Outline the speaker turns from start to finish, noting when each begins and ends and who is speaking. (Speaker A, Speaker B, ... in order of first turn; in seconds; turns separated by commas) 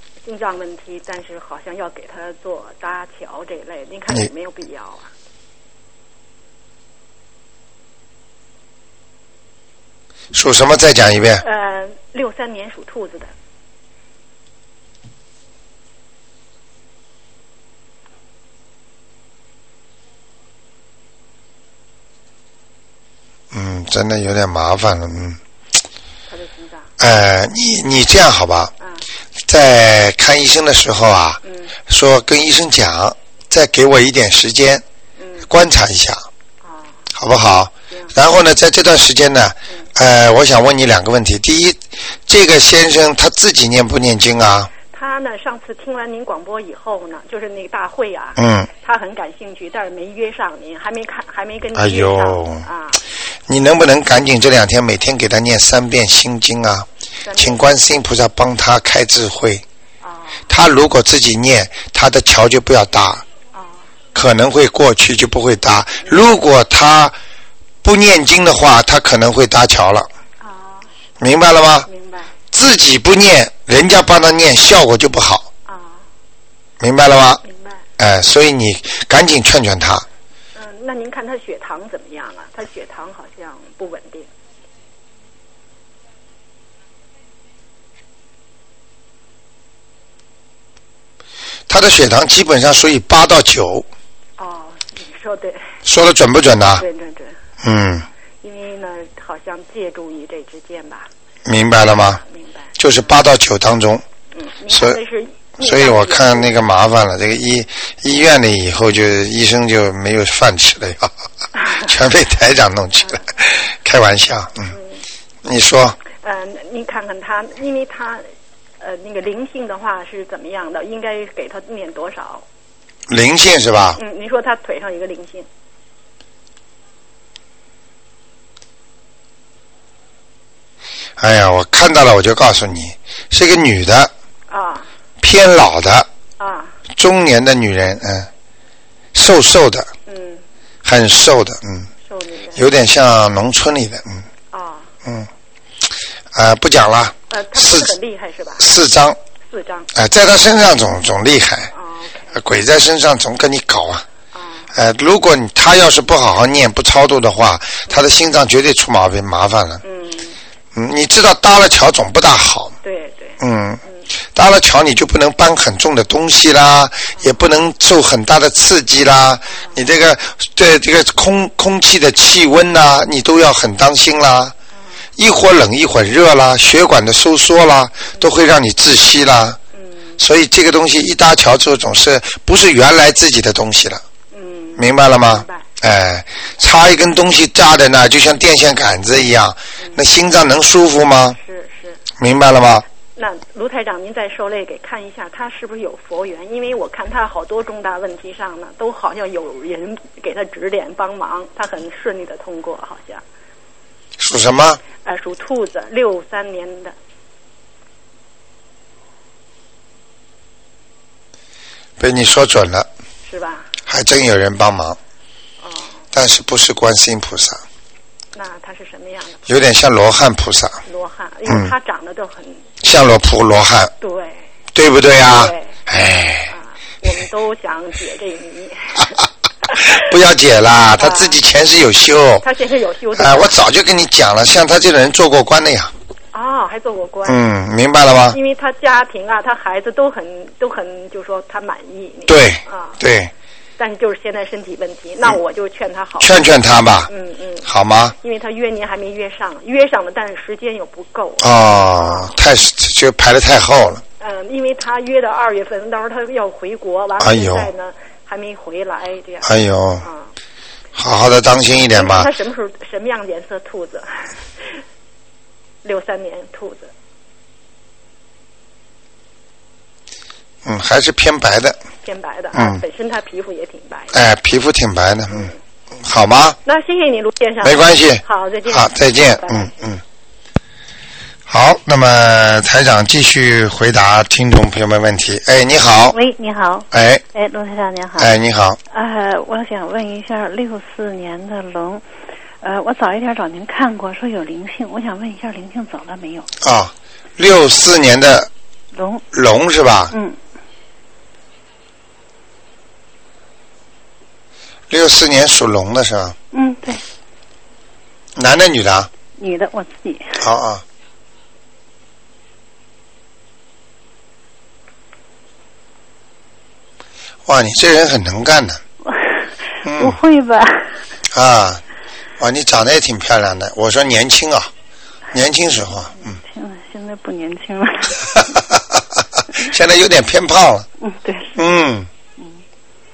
Speaker A: 0.2-5.1, Speaker B: 10.3-11.4, Speaker A: 11.4-13.3, Speaker B: 23.5-25.4, Speaker A: 26.3-26.9, Speaker B: 27.0-28.7, Speaker B: 29.5-34.8, Speaker A: 31.4-31.7, Speaker A: 35.2-35.5, Speaker B: 35.5-36.2, Speaker A: 36.6-37.0, Speaker B: 37.1-44.7, Speaker A: 44.9-53.0, Speaker B: 48.4-48.7, Speaker B: 51.7-52.6, Speaker B: 53.5-59.6, Speaker A: 57.2-57.6, Speaker A: 60.0-60.5, Speaker B: 60.5-63.2, Speaker A: 63.5-63.9, Speaker B: 64.1-67.1, Speaker B: 67.8-70.1, Speaker A: 70.4-70.9, Speaker B: 71.2-71.9, Speaker A: 71.9-72.3, Speaker B: 72.5-75.5, Speaker A: 75.7-76.0, Speaker B: 76.8-77.4, Speaker A: 77.4-77.8, Speaker B: 78.0-80.0, Speaker A: 80.5-84.3, Speaker B: 91.7-93.8, Speaker A: 94.4-95.6, Speaker B: 95.8-96.8, Speaker A: 96.8-97.3, Speaker B: 97.6-98.1, Speaker A: 98.4-101.1, Speaker B: 101.5-102.2, Speaker A: 102.0-103.2, Speaker B: 102.8-104.0, Speaker A: 104.3-106.5, Speaker B: 104.7-105.0, Speaker B: 105.6-111.1, Speaker A: 111.6-111.9, Speaker B: 111.8-114.7, Speaker A: 114.7-115.0, Speaker B: 115.4-116.0, Speaker A: 116.2-118.2, Speaker A: 118.8-122.4, Speaker B: 123.1-124.0, Speaker A: 124.0-125.5, Speaker B: 131.2-134.1, Speaker A: 134.5-134.9, Speaker B: 135.2-136.1, Speaker A: 136.4-136.8, Speaker B: 136.9-138.3, Speaker B: 139.1-139.9, Speaker A: 140.1-140.4, Speaker B: 140.8-141.9, Speaker A: 142.1-142.6, Speaker B: 142.5-144.2, Speaker A: 144.5-144.9, Speaker B: 145.0-145.3, Speaker B: 146.3-147.9, Speaker A: 147.3-148.7, Speaker B: 148.6-149.2, Speaker A: 149.5-149.9, Speaker B: 149.9-151.7, Speaker A: 151.7-152.3, Speaker B: 152.3-154.0, Speaker A: 154.3-154.7, Speaker B: 154.7-159.8, Speaker A: 159.8-160.4, Speaker B: 160.7-162.7, Speaker A: 162.8-164.0, Speaker B: 163.4-163.8, Speaker B: 164.3-174.5, Speaker A: 169.5-169.8, Speaker A: 174.8-175.0, Speaker B: 175.2-179.6, Speaker A: 179.7-180.2, Speaker B: 180.2-184.0, Speaker A: 184.3-185.6, Speaker B: 184.8-191.4, Speaker A: 191.3-192.0, Speaker B: 192.2-192.8, Speaker A: 193.2-203.2, Speaker B: 204.2-204.8, Speaker A: 205.0-206.9, Speaker B: 212.0-212.9, Speaker A: 213.2-213.7, Speaker B: 213.9-215.0, Speaker A: 215.6-216.0, Speaker B: 216.1-217.6, Speaker A: 218.3-219.5, Speaker B: 219.5-220.8, Speaker A: 220.8-222.7, Speaker B: 221.4-221.7, Speaker B: 222.8-223.9, Speaker A: 224.0-224.4, Speaker B: 224.7-226.5, Speaker A: 225.2-225.7, Speaker A: 226.5-230.0, Speaker B: 229.7-232.4, Speaker A: 231.0-231.4, Speaker A: 232.4-233.5, Speaker B: 233.1-235.9, Speaker A: 236.3-237.4, Speaker B: 237.2-238.4, Speaker A: 238.3-243.0, Speaker B: 242.3-243.3, Speaker A: 243.8-246.4, Speaker B: 246.2-247.1, Speaker A: 247.1-247.7, Speaker B: 247.6-248.1, Speaker A: 248.2-252.3, Speaker B: 251.4-254.0, Speaker A: 254.2-260.3, Speaker B: 257.2-257.7, Speaker B: 259.4-260.1, Speaker B: 260.9-262.3, Speaker A: 261.9-264.3, Speaker A: 265.8-266.9, Speaker B: 270.6-271.8, Speaker A: 272.0-274.1, Speaker B: 272.5-272.8, Speaker B: 274.1-276.6, Speaker A: 275.3-275.6, Speaker A: 276.6-279.7, Speaker B: 277.6-280.0, Speaker B: 281.5-286.2, Speaker C: 286.1-288.3, Speaker B: 286.9-287.2, Speaker B: 288.2-288.8, Speaker C: 288.9-292.0, Speaker C: 292.6-296.5, Speaker B: 296.6-298.5, Speaker C: 298.9-299.2, Speaker B: 299.3-300.1, Speaker C: 300.1-300.4, Speaker B: 304.9-306.4, Speaker C: 306.5-307.0, Speaker B: 308.4-309.1, Speaker C: 309.4-310.4, Speaker B: 310.4-310.8, Speaker B: 317.4-318.8, Speaker C: 319.0-321.0, Speaker B: 319.8-320.2, Speaker B: 321.3-321.8, Speaker B: 322.4-324.7, Speaker B: 325.3-326.4, Speaker C: 326.2-328.4, Speaker B: 328.3-328.9, Speaker B: 329.6-330.9, Speaker C: 331.0-331.6, Speaker B: 331.6-332.1